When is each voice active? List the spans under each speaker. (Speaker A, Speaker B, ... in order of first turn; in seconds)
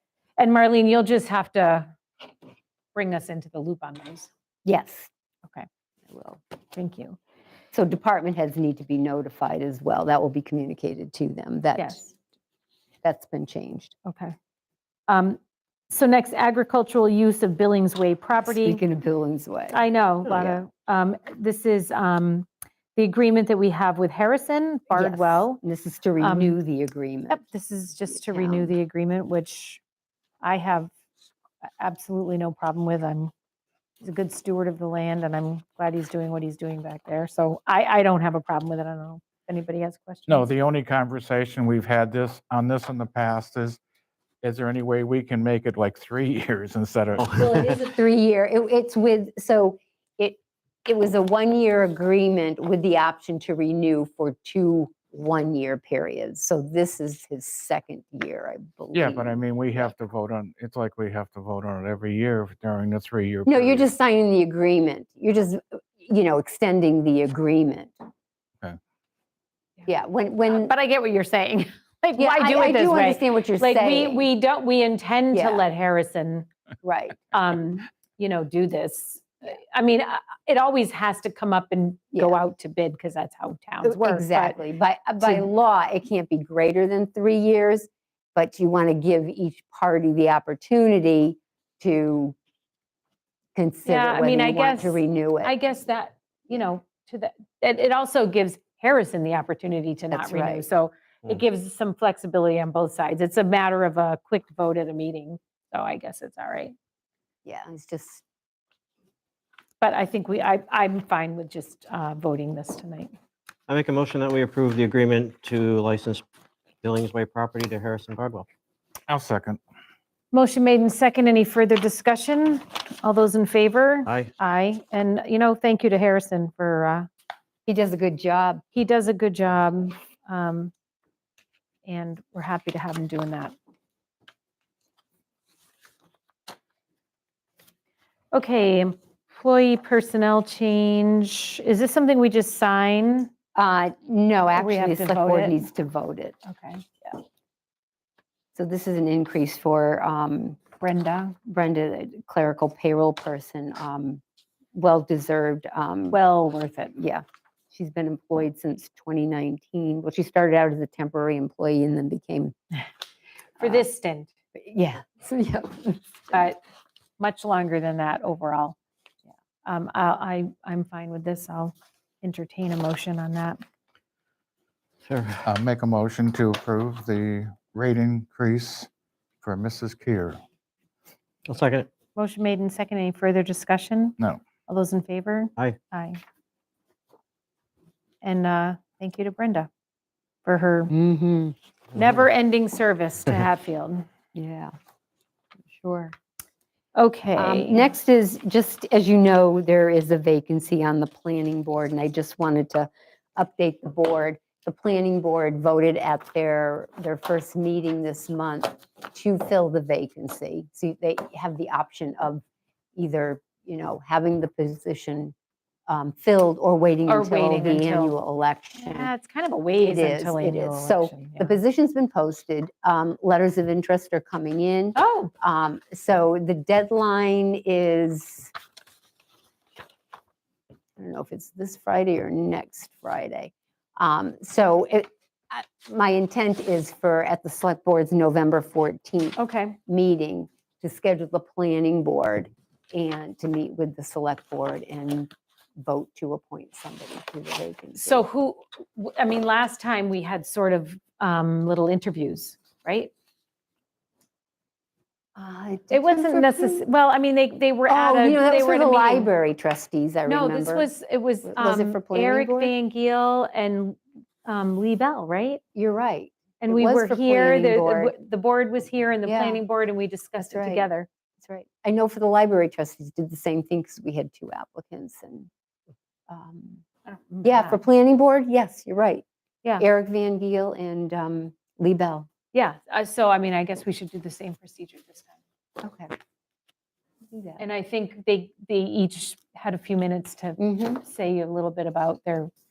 Speaker A: 0.4-1.9, 2.9-4.3, 6.7-7.2, 11.8-12.1, 14.1-14.3, 15.1-18.8, 19.7-25.6, 26.2-26.6, 27.3-29.8, 30.4-30.9, 31.8-33.3, 34.0-40.5, 70.5-76.5, 77.3-84.6, 85.2-85.5, 93.9-106.8, 109.8-113.1, 120.3-127.1, 128.7-130.7, 131.9-133.5, 138.3-143.3, 144.6-145.6, 146.5-147.2, 150.8-151.4, 156.1-157.0, 163.6-164.3, 166.3-166.6, 167.2-168.8, 169.7-173.6, 182.2-186.2, 188.2-189.7, 190.4-190.9, 191.9-194.1, 196.9-197.9, 217.1-218.1, 218.8-221.6, 224.9-225.3, 239.4-239.8, 248.0-253.1, 255.9-259.3, 260.3-265.6, 266.6-271.1, 277.1-277.8, 282.5-285.4, 287.6-292.5
Speaker B: 4.7-5.1, 6.1-6.4, 7.7-12.0, 13.0-13.9, 18.5-20.6, 24.9-27.4, 28.1-28.7, 47.3-59.9, 63.5-68.0, 69.9-70.7, 72.2-74.3, 75.3-75.6, 76.8-77.2, 82.1-82.4, 83.8-92.4, 93.5-95.6, 100.1-100.7, 107.5-108.2, 127.7-128.6, 143.6-146.4, 148.6-150.6, 151.4-154.2, 154.7-156.2, 157.0-162.6, 163.6-163.8, 164.6-166.5, 190.9-191.6, 194.3-194.8, 195.7-196.2, 197.4-212.4, 213.0-215.3, 215.9-219.1, 219.8-228.5, 231.0-248.3, 255.4-256.9, 257.9-260.9, 261.4-262.7, 265.8-268.1, 269.2-269.6, 270.5-270.9, 271.4-275.5, 276.3-276.8, 277.4-279.2, 279.8-282.3, 285.8-286.1, 287.3-287.6, 290.6-291.0
Speaker C: 40.3-43.8, 44.4-47.5, 58.9-63.9, 119.1-119.6, 175.4-178.9, 179.4-180.4
Speaker D: 113.7-116.2, 116.8-118.5, 124.1-124.3, 175.1-175.4, 181.5-181.9